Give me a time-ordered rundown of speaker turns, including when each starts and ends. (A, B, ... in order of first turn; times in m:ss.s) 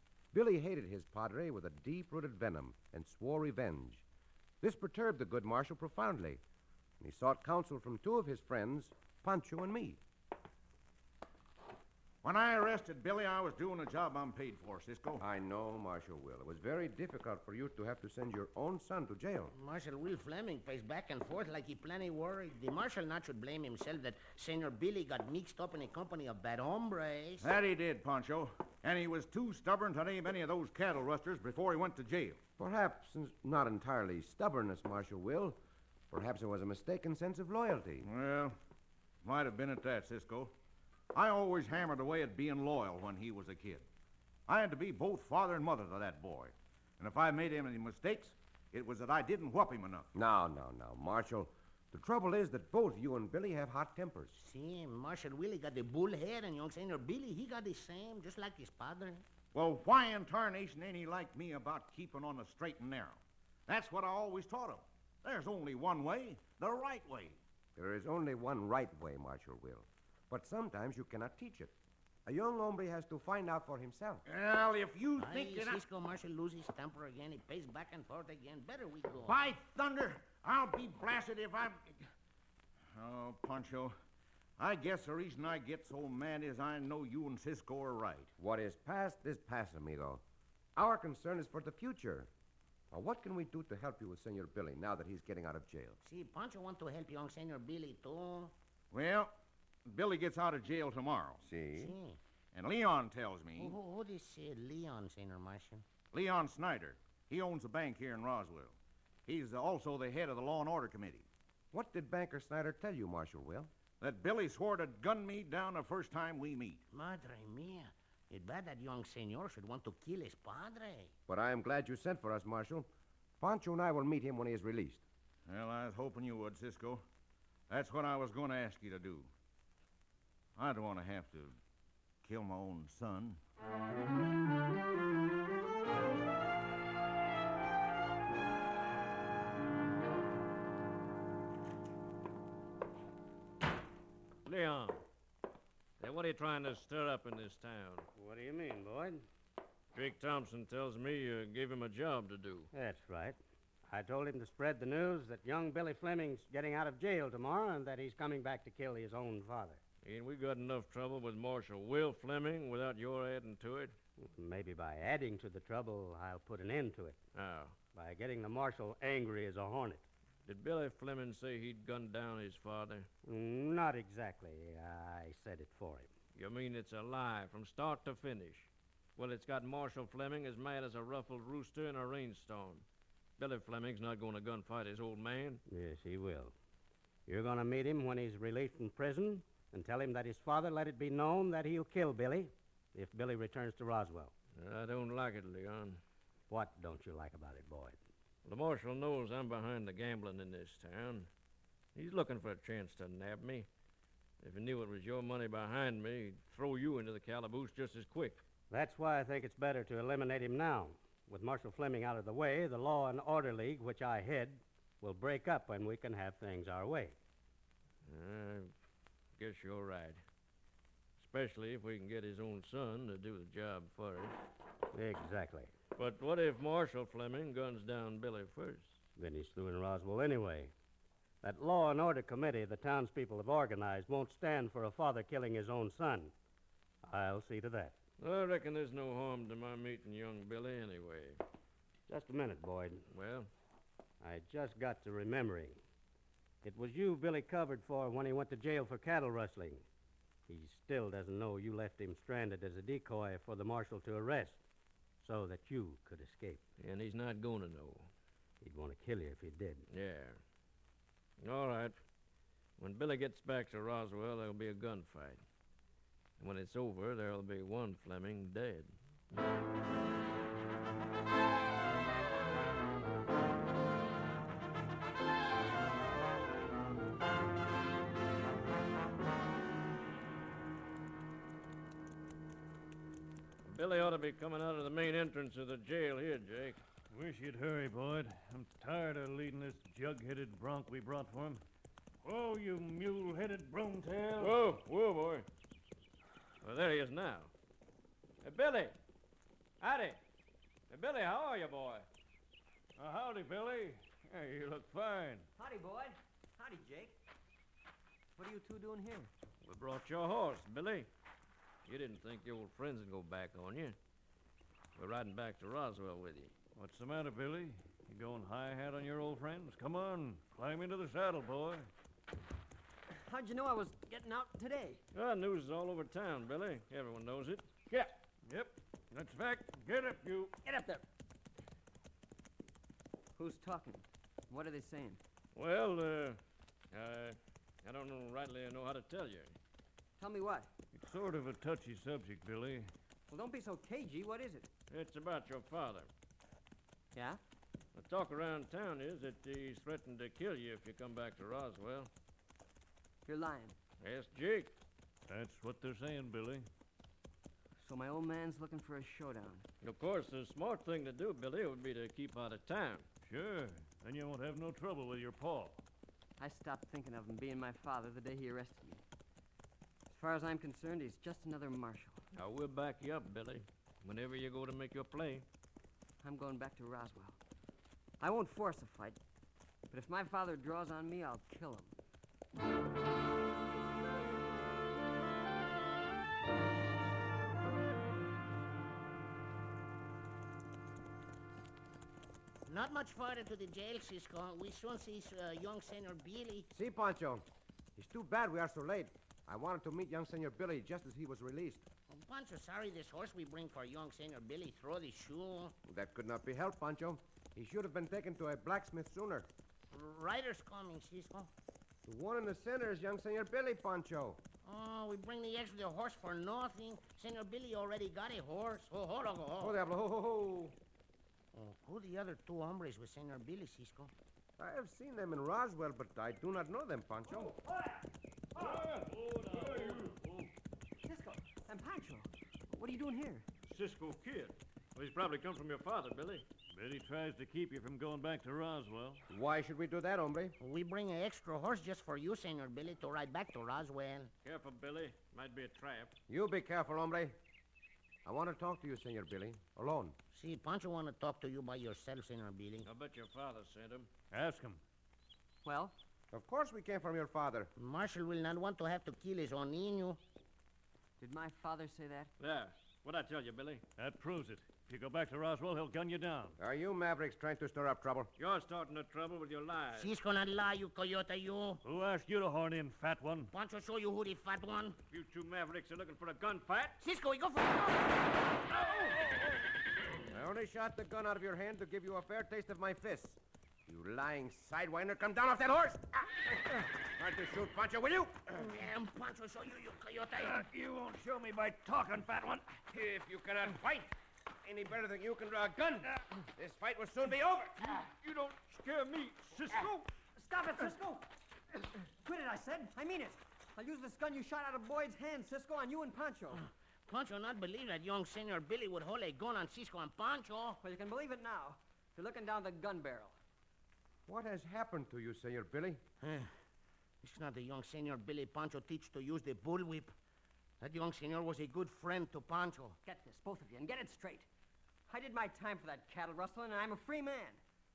0:00.3-0:04.0 A
0:04.6-0:06.4 A
0:07.0-0:10.0 A
0:12.2-0:15.2 B
0:15.2-0:19.5 A
0:19.5-0:27.5 C
0:27.4-0:32.4 B
0:32.6-0:38.1 A
0:38.0-0:38.6 B
0:39.2-0:40.5 B
0:41.1-0:43.8 B
0:44.5-0:50.1 B
0:50.1-0:54.4 A
0:54.3-0:59.2 C
0:59.5-1:07.4 B
1:07.8-1:11.7 A
1:12.2-1:14.2 A
1:14.2-1:15.8 B
1:15.2-1:19.4 C
1:19.2-1:22.1 B
1:22.9-1:23.9 B
1:24.6-1:28.3 B
1:28.4-1:30.2 A
1:30.8-1:32.3 A
1:32.9-1:36.0 A
1:36.0-1:38.5 C
1:38.9-1:39.3 B
1:39.8-1:41.4 B
1:41.4-1:41.9 A
1:41.8-1:42.2 C
1:42.5-1:43.8 B
1:43.6-1:45.8 C
1:46.1-1:51.3 B
1:51.7-1:53.7 A
1:54.0-1:56.8 B
1:56.9-2:01.1 C
2:01.3-2:02.9 A
2:03.4-2:05.0 A
2:05.4-2:07.0 B
2:07.7-2:09.3 B
2:10.6-2:11.6 B
2:12.2-2:13.4 B
2:24.4-2:25.0 D
2:26.0-2:28.1 D
2:28.2-2:29.2 E
2:29.9-2:32.7 D
2:32.7-2:33.4 E
2:33.9-2:39.8 E
2:40.0-2:44.0 D
2:44.2-2:47.2 E
2:47.3-2:47.8 D
2:47.9-2:50.0 E
2:50.4-2:53.1 D
2:53.2-2:56.1 E
2:56.3-3:02.8 D
3:03.4-3:05.6 D
3:05.7-3:06.5 E
3:07.3-3:14.3 E
3:14.6-3:16.0 D
3:16.5-3:18.0 E
3:18.4-3:21.3 D
3:21.9-3:23.7 D
3:24.4-3:28.4 D
3:28.7-3:37.2 E
3:38.0-3:38.7 D
3:39.4-3:40.2 D
3:41.2-3:44.4 D
3:44.9-3:45.7 E
3:45.9-3:49.0 D
3:49.2-3:50.7 E
3:51.4-3:56.3 E
3:57.0-3:58.0 E
3:58.2-4:01.4 D
4:02.1-4:03.0 E
4:03.1-4:03.5 D
4:04.2-4:05.8 E
4:06.6-4:09.8 E
4:10.5-4:14.6 E
4:15.2-4:16.6 E
4:16.8-4:18.1 D
4:18.6-4:19.9 E
4:19.9-4:20.4 D
4:21.4-4:22.0 D
4:22.8-4:25.4 D
4:26.4-4:28.9 D
4:43.6-4:46.8 D
4:47.1-4:51.6 F
4:52.2-4:54.6 F
4:54.4-4:55.5 D
4:56.6-4:57.5 D
4:58.4-4:59.0 D
4:59.8-5:00.2 D
5:00.9-5:02.1 D
5:03.0-5:05.4 F
5:05.6-5:07.2 G
5:08.4-5:09.3 G
5:09.6-5:11.1 D
5:11.8-5:14.0 D
5:15.0-5:16.5 D
5:16.8-5:21.9 F
5:23.2-5:25.0 G
5:25.1-5:28.1 D
5:27.9-5:30.5 F
5:30.6-5:31.0 G
5:33.4-5:35.2 G
5:35.5-5:36.4 D
5:36.9-5:39.5 D
5:40.2-5:40.7 G
5:40.9-5:42.9 F
5:43.3-5:44.7 G
5:44.9-5:46.1 D
5:47.1-5:47.4 G
5:47.9-5:52.1 D
5:53.2-5:53.8 G
5:54.0-5:54.7 D
5:55.3-5:56.7 F
5:57.8-5:59.6 G
5:59.8-6:03.0 D
6:03.2-6:05.8 F
6:06.4-6:09.0 G
6:10.1-6:12.2 G
6:12.3-6:15.4 D
6:16.2-6:17.4 G
6:18.2-6:19.2 G
6:19.9-6:21.9 G
6:32.6-6:36.7 C
6:36.7-6:37.4 A
6:38.0-6:41.8 A
6:42.1-6:45.8 C
6:45.8-6:49.5 A
6:49.9-6:51.5 C
6:52.0-6:54.4 A
6:54.6-6:59.8 C
6:59.6-7:00.8 A
7:01.5-7:04.1 C
7:04.6-7:07.5 A
7:07.3-7:08.8 G
7:08.6-7:10.5 F
7:11.0-7:13.4 G
7:13.6-7:16.4 D
7:16.7-7:19.2 F
7:19.3-7:20.6 A
7:20.6-7:24.3 C
7:24.4-7:26.1 D
7:26.3-7:27.4 A
7:28.2-7:30.2 A
7:30.3-7:32.9 C
7:32.8-7:34.1 D
7:34.3-7:34.8 F
7:35.6-7:35.9 G
7:36.3-7:37.7 A
7:37.8-7:40.2 C
7:41.2-7:42.3 G
7:42.4-7:43.8 D
7:44.0-7:46.6 F
7:46.6-7:48.3 A
7:48.4-7:50.1 D
7:49.9-7:51.8 C
7:51.8-7:53.5 F
7:53.5-7:55.0 C
7:55.1-7:57.0 D
7:57.0-7:58.2 C
8:00.3-8:08.6 A
8:08.5-8:10.7 C
8:11.7-8:12.2 F
8:12.9-8:17.9 A
8:18.0-8:19.9 D
8:20.3-8:21.3 G
8:22.0-8:26.6 G
8:27.1-8:30.8 C
8:30.8-8:33.3 G
8:34.3-8:36.0 A
8:36.2-8:36.5 C
8:37.2-8:40.1 C
8:40.8-8:43.0 C
8:43.0-8:44.5 G
8:45.1-8:47.6 G